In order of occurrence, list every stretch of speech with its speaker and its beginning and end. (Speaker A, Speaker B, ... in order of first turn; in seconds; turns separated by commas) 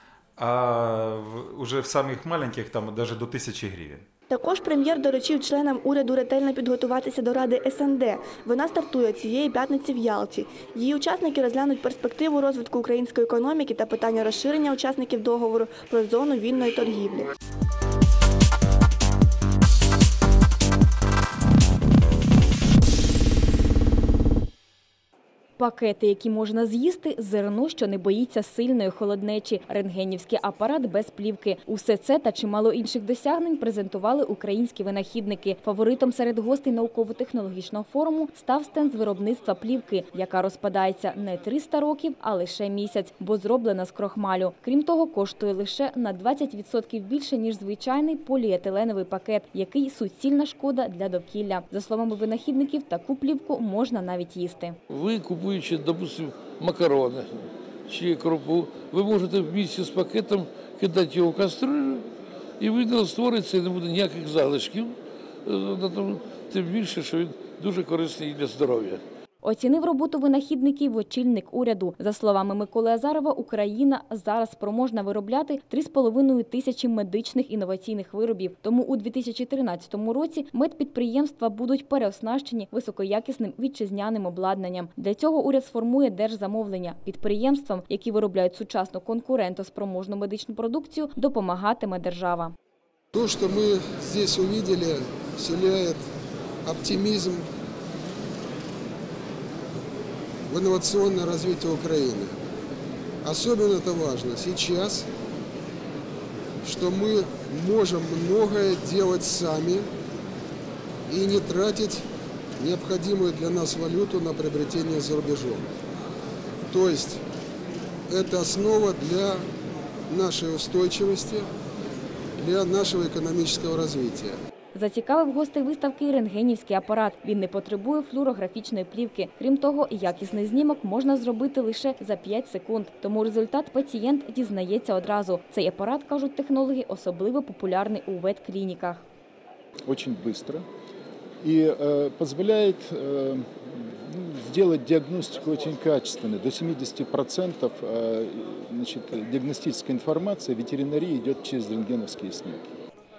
Speaker A: 0.4-4.0, Speaker B: 4.3-17.3, Speaker C: 25.6-54.8, Speaker D: 54.9-62.0, Speaker D: 62.6-69.0, Speaker C: 69.4-92.5, Speaker E: 93.1-96.0, Speaker E: 96.6-97.5, Speaker E: 100.5-102.4, Speaker E: 103.2-105.1, Speaker E: 106.6-109.9, Speaker E: 111.1-112.0, Speaker E: 112.6-115.7, Speaker E: 116.7-117.2, Speaker E: 118.1-119.5, Speaker E: 120.1-121.5, Speaker E: 122.4-124.4, Speaker C: 124.8-139.0, Speaker F: 139.9-140.7, Speaker F: 141.4-143.5, Speaker F: 144.1-152.7